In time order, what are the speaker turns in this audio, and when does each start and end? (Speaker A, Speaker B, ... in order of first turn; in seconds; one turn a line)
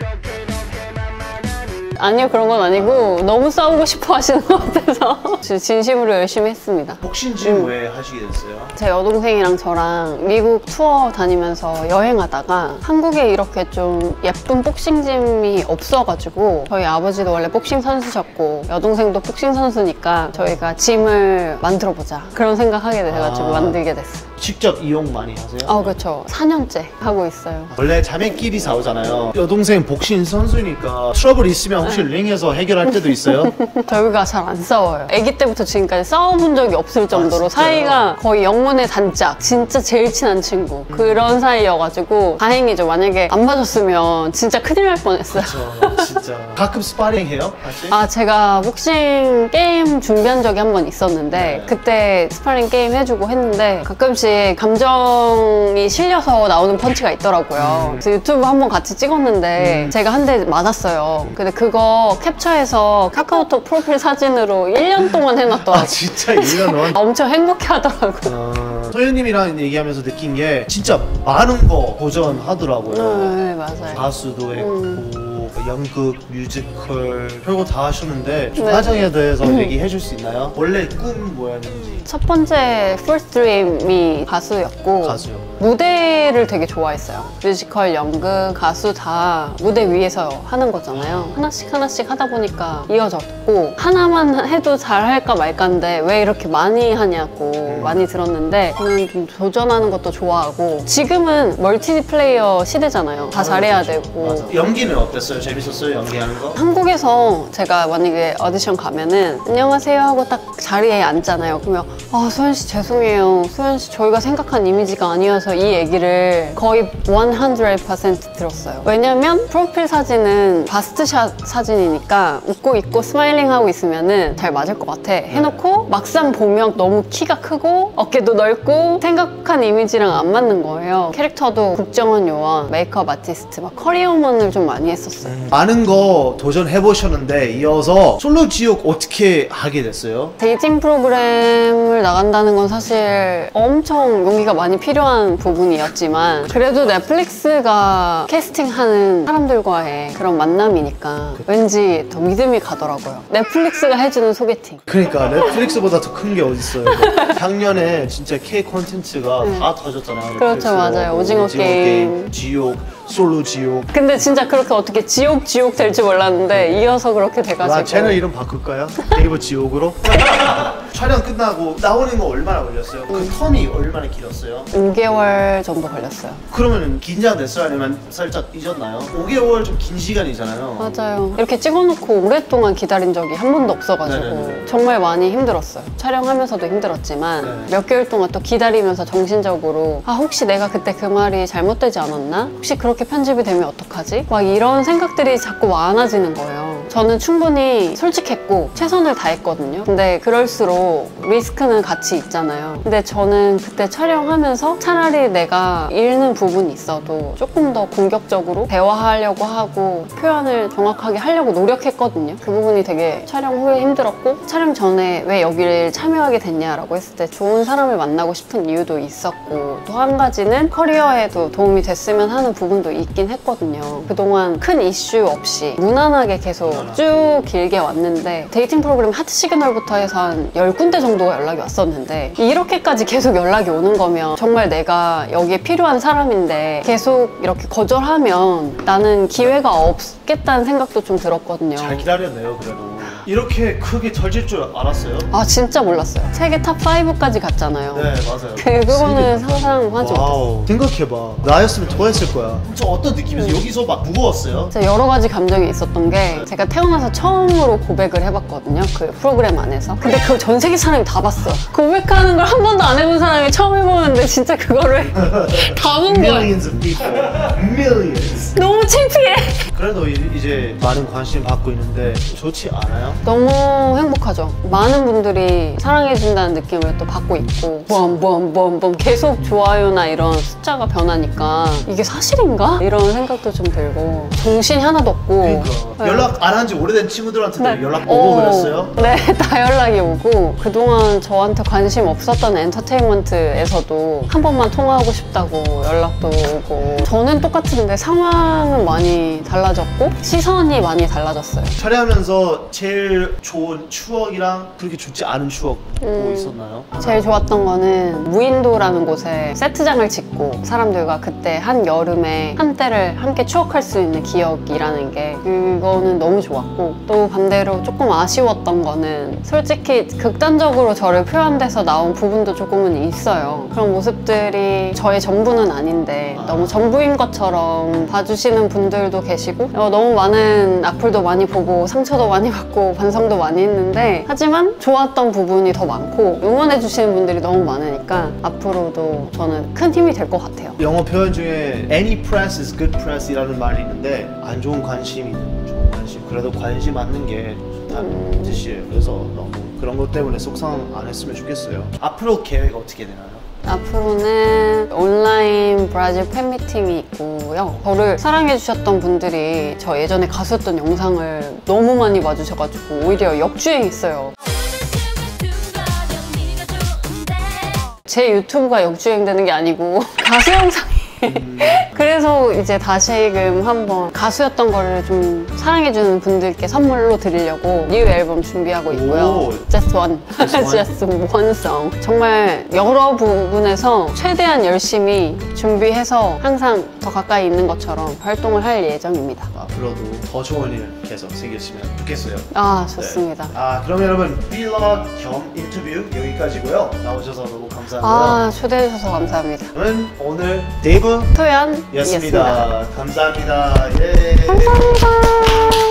Speaker A: 1.9-7.7
Speaker B: 2.8-3.1
Speaker B: 7.0-8.7
Speaker A: 8.8-24.3
Speaker B: 23.1-23.8
Speaker B: 24.4-25.9
Speaker A: 25.6-27.7
Speaker B: 27.7-33.5
Speaker A: 33.2-46.2
Speaker B: 37.1-38.1
Speaker B: 40.9-41.4
Speaker B: 45.3-48.0
Speaker A: 47.9-68.3
Speaker B: 51.3-51.8
Speaker B: 57.5-58.0
Speaker B: 59.6-59.9
Speaker B: 65.6-67.0
Speaker B: 68.2-73.3
Speaker A: 72.9-74.0
Speaker B: 73.9-82.0
Speaker A: 74.6-75.0
Speaker A: 78.6-79.7
Speaker A: 82.0-104.5
Speaker B: 85.0-85.5
Speaker B: 90.9-91.3
Speaker B: 97.7-98.0
Speaker B: 103.3-106.6
Speaker A: 106.5-135.4
Speaker B: 125.3-125.6
Speaker B: 135.2-140.3
Speaker A: 140.4-154.8
Speaker B: 146.4-147.0
Speaker B: 154.9-163.9
Speaker A: 159.4-159.7
Speaker A: 160.4-162.3
Speaker A: 163.9-168.2
Speaker B: 166.5-167.0
Speaker B: 167.6-174.7
Speaker A: 173.1-173.4
Speaker A: 174.7-176.4
Speaker B: 176.5-180.9
Speaker A: 180.8-242.1
Speaker B: 184.0-184.6
Speaker B: 187.4-187.7
Speaker B: 226.6-227.1
Speaker B: 241.8-245.3
Speaker A: 245.3-250.4
Speaker B: 247.9-254.7
Speaker A: 253.3-253.7
Speaker A: 254.7-266.6
Speaker B: 265.2-268.7
Speaker A: 268.5-269.7
Speaker B: 269.7-273.2
Speaker A: 273.2-286.3
Speaker B: 285.4-289.2
Speaker A: 287.6-301.8
Speaker B: 301.8-307.2
Speaker A: 306.0-340.8
Speaker B: 326.4-326.8
Speaker B: 340.8-353.4
Speaker A: 347.9-348.6
Speaker A: 353.6-364.3
Speaker A: 365.3-389.5
Speaker B: 371.2-371.9
Speaker B: 378.9-379.7
Speaker B: 380.3-380.9
Speaker B: 389.5-398.5
Speaker A: 392.5-393.5
Speaker A: 398.0-399.7
Speaker B: 399.7-401.4
Speaker A: 401.3-402.7
Speaker B: 401.9-405.0
Speaker A: 404.5-405.6